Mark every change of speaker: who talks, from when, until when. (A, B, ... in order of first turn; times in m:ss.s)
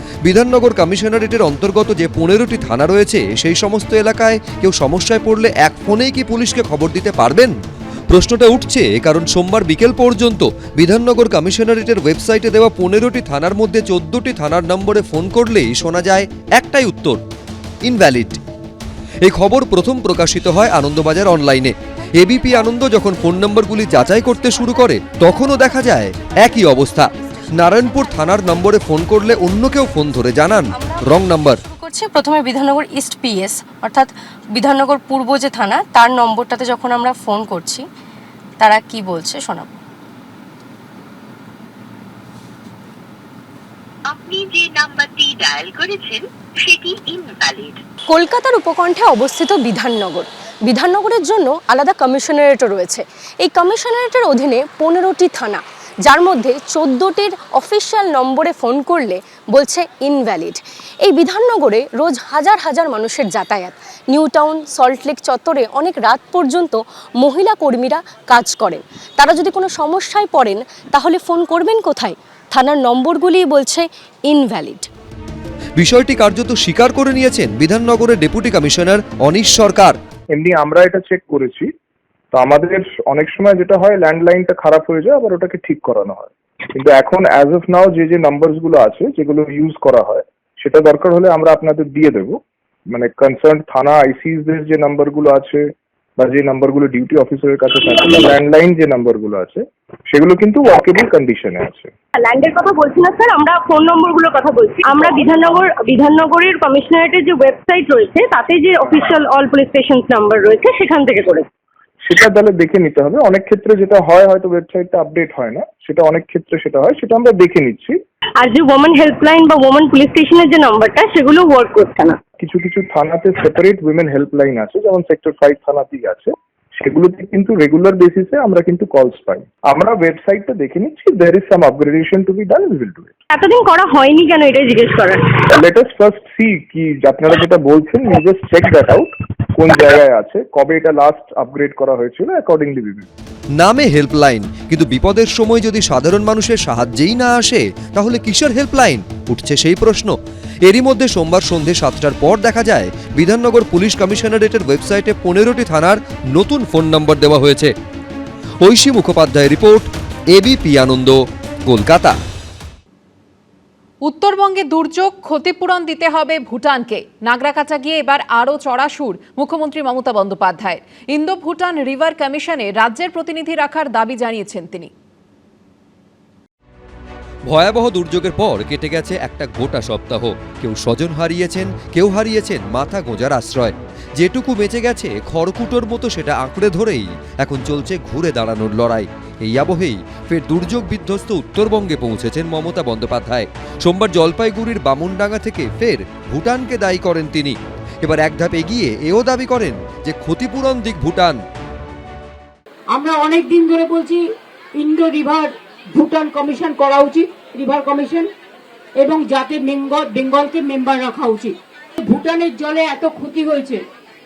0:00.2-0:07.6 A
0:08.1-0:17.2 A
0:17.8-0:18.4 A
0:19.2-0:31.7 A
0:30.7-0:37.8 B
0:38.6-0:39.7 B
0:44.1-0:47.8 C
0:48.1-1:14.9 B
1:15.8-1:20.0 A
1:20.3-1:21.7 D
1:22.3-1:32.4 D
1:32.9-1:35.7 D
1:36.2-1:41.9 D
1:42.2-1:51.5 E
1:52.0-1:58.0 D
1:58.4-2:02.2 E
2:02.4-2:13.1 D
2:13.3-2:15.4 E
2:15.6-2:23.1 D
2:23.6-2:37.7 A
2:38.6-2:42.2 A
2:44.0-2:54.9 F
2:57.5-3:21.4 A
3:23.0-3:24.2 G
3:24.8-3:28.3 G
3:29.0-3:31.5 G
3:32.1-3:33.8 G